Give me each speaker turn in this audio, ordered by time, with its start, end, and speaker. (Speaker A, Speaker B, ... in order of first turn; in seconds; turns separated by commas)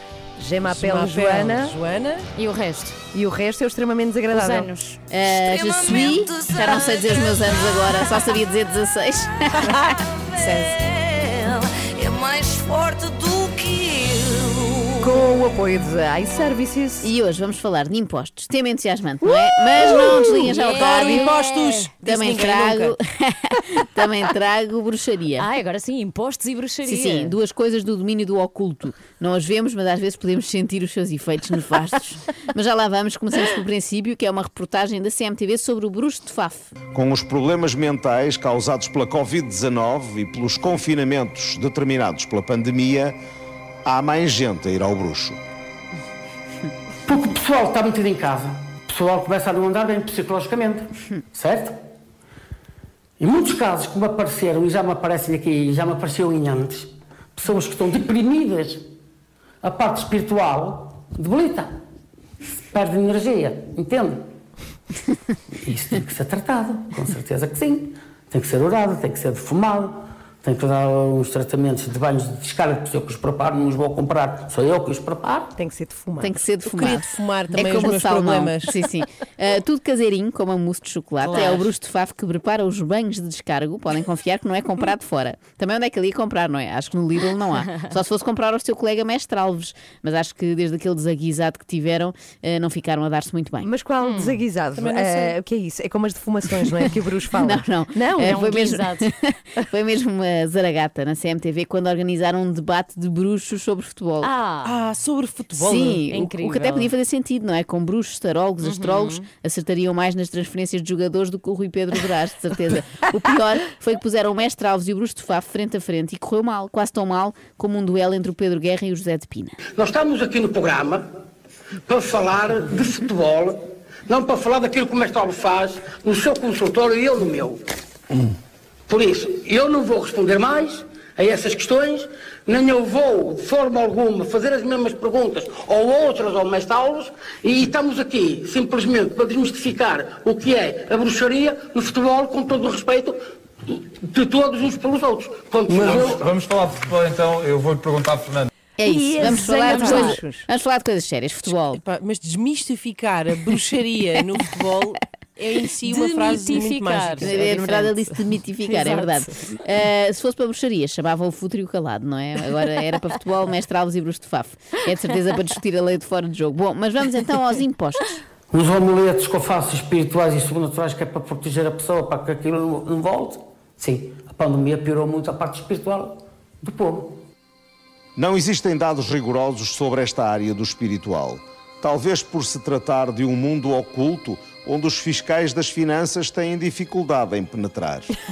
Speaker A: 0.4-1.8, Speaker B: 0.6-2.3, Speaker C: 2.4-3.0, Speaker A: 3.1-4.7, Speaker C: 4.3-5.0, Speaker D: 5.1-10.0, Speaker E: 5.2-8.3, Speaker E: 10.2-15.1, Speaker A: 15.0-17.1, Speaker D: 17.0-25.5, Speaker B: 19.7-23.0, Speaker C: 20.5-21.9, Speaker C: 25.4-27.4, Speaker D: 26.9-36.7, Speaker F: 36.9-43.2, Speaker F: 43.9-45.4, Speaker G: 47.0-51.8, Speaker G: 53.2-58.8, Speaker G: 59.6-61.8, Speaker G: 62.6-64.3, Speaker G: 65.7-75.5, Speaker A: 75.6-76.4, Speaker D: 76.2-93.7, Speaker B: 76.7-78.8, Speaker B: 81.2-81.6, Speaker A: 93.6-98.5, Speaker C: 94.0-94.4, Speaker B: 94.8-95.3, Speaker D: 97.3-104.3, Speaker C: 98.2-99.1, Speaker C: 104.2-104.7, Speaker B: 104.6-106.0, Speaker D: 105.5-119.6, Speaker C: 106.0-106.9, Speaker C: 108.6-109.2, Speaker G: 119.8-121.1, Speaker G: 121.9-127.6, Speaker G: 128.9-146.2, Speaker H: 145.7-148.5, Speaker D: 148.8-151.8, Speaker A: 148.9-150.4, Speaker C: 149.7-150.1, Speaker B: 151.5-158.1, Speaker C: 155.9-157.9, Speaker D: 157.2-168.2, Speaker B: 158.7-159.3, Speaker G: 168.5-177.2, Speaker F: 178.2-188.1